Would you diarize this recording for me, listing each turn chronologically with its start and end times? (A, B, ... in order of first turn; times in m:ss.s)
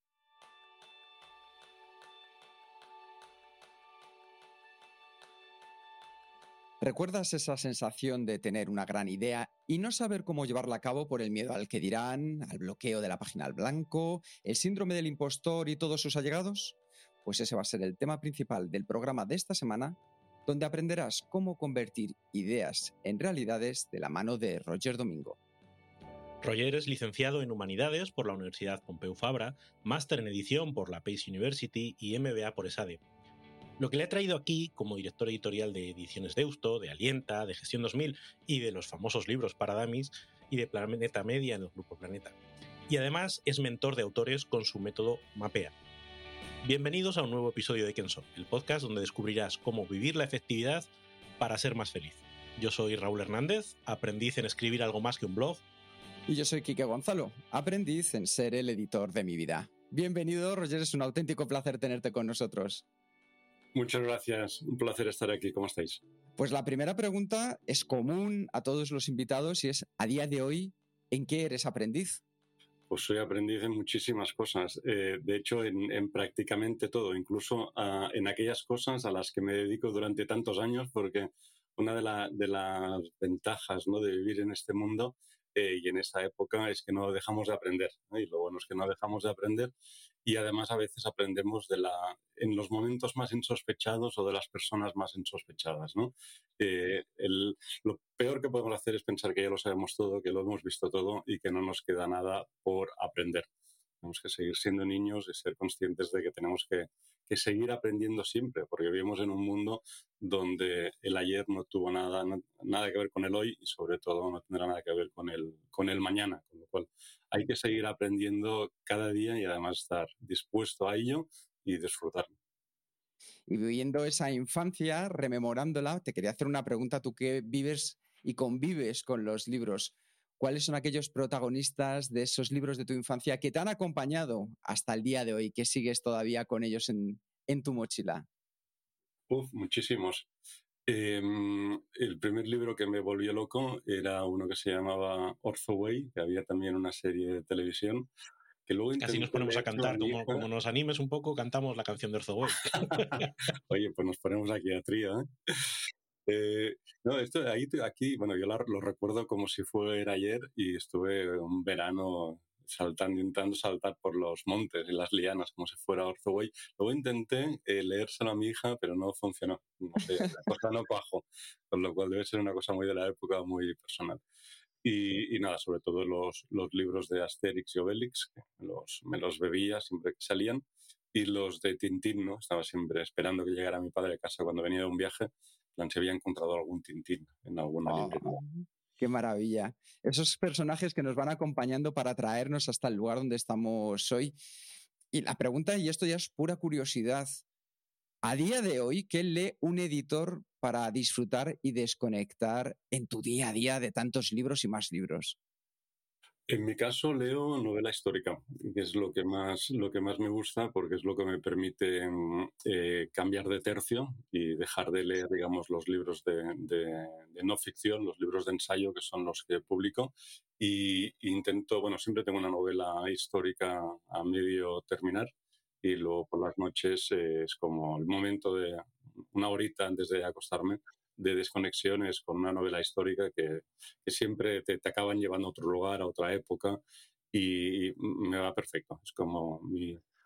0:06.8-0:25.4 A
0:26.4-0:33.0 B
0:33.8-0:42.3 B
0:42.9-0:45.7 B
0:46.6-0:50.9 B
0:51.4-0:55.6 B
0:56.3-1:02.8 A
1:03.7-1:06.0 C
1:06.4-1:12.2 A
1:12.9-1:29.7 C
1:30.2-1:43.5 C
1:44.0-2:02.3 C
2:03.5-2:18.2 A
2:19.3-2:20.3 C
2:20.9-2:28.1 C
2:28.7-2:30.4 C
2:29.0-2:33.3 B
2:32.7-2:35.7 C
2:36.2-2:54.2 C
2:54.8-3:08.4 C
3:07.9-3:14.4 A
3:15.1-3:17.3 A
3:18.2-3:25.4 A
3:26.5-3:45.3 C
3:45.8-3:56.8 C
3:57.3-4:00.0 C